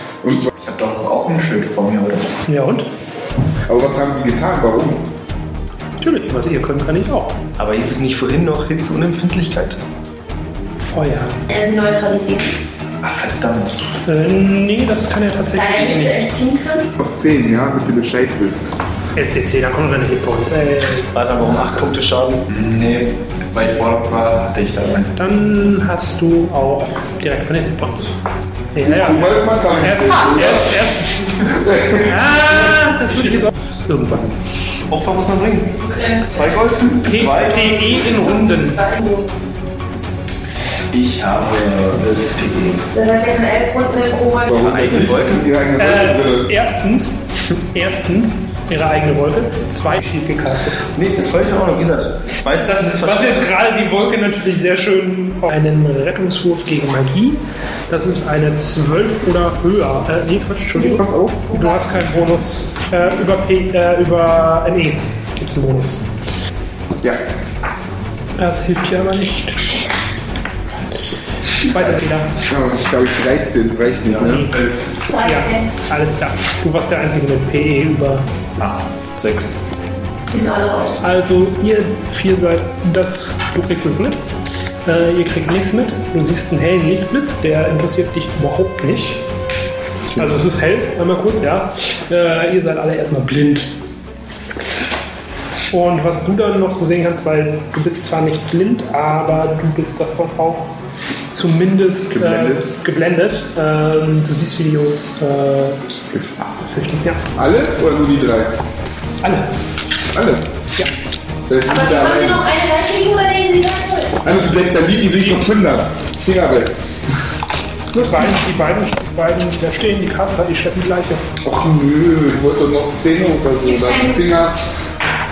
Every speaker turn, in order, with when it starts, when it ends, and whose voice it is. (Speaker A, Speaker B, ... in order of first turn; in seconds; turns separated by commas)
Speaker A: 0.2-0.5, Speaker B: 0.3-2.4, Speaker C: 2.5-2.9, Speaker A: 3.7-5.1, Speaker C: 6.0-7.4, Speaker D: 7.6-9.8, Speaker C: 10.8-11.4, Speaker E: 11.5-12.6, Speaker B: 13.0-13.8, Speaker C: 14.1-16.1, Speaker E: 15.5-16.9, Speaker A: 17.0-18.7, Speaker C: 19.2-21.1, Speaker D: 21.1-22.4, Speaker B: 22.5-25.1, Speaker C: 25.2-28.1, Speaker C: 28.8-31.4, Speaker A: 28.8-30.9, Speaker A: 31.4-32.3, Speaker C: 32.0-34.4, Speaker D: 34.9-38.2, Speaker E: 35.9-36.5, Speaker C: 37.0-38.8, Speaker E: 38.0-39.3, Speaker B: 40.9-42.8, Speaker E: 42.9-44.7, Speaker A: 44.5-46.5, Speaker D: 44.5-45.5, Speaker C: 45.8-50.8, Speaker D: 50.9-53.5, Speaker C: 52.6-66.0, Speaker E: 60.8-61.8, Speaker C: 68.4-69.9, Speaker C: 71.6-72.3, Speaker A: 72.5-74.5, Speaker B: 74.1-75.0, Speaker C: 74.2-74.5, Speaker E: 75.1-75.7, Speaker C: 75.2-78.3, Speaker B: 78.6-79.3, Speaker D: 79.2-79.5, Speaker E: 80.3-81.0, Speaker C: 81.0-84.2, Speaker C: 84.8-89.2, Speaker C: 90.1-93.7, Speaker C: 95.7-100.7, Speaker C: 101.3-105.8, Speaker A: 102.1-102.7, Speaker C: 106.5-107.2, Speaker A: 107.3-108.6, Speaker C: 109.2-109.5, Speaker A: 110.1-110.5, Speaker A: 111.5-112.4, Speaker E: 111.6-114.2, Speaker A: 114.2-116.7, Speaker C: 117.9-121.3, Speaker A: 121.4-124.6, Speaker E: 123.6-124.2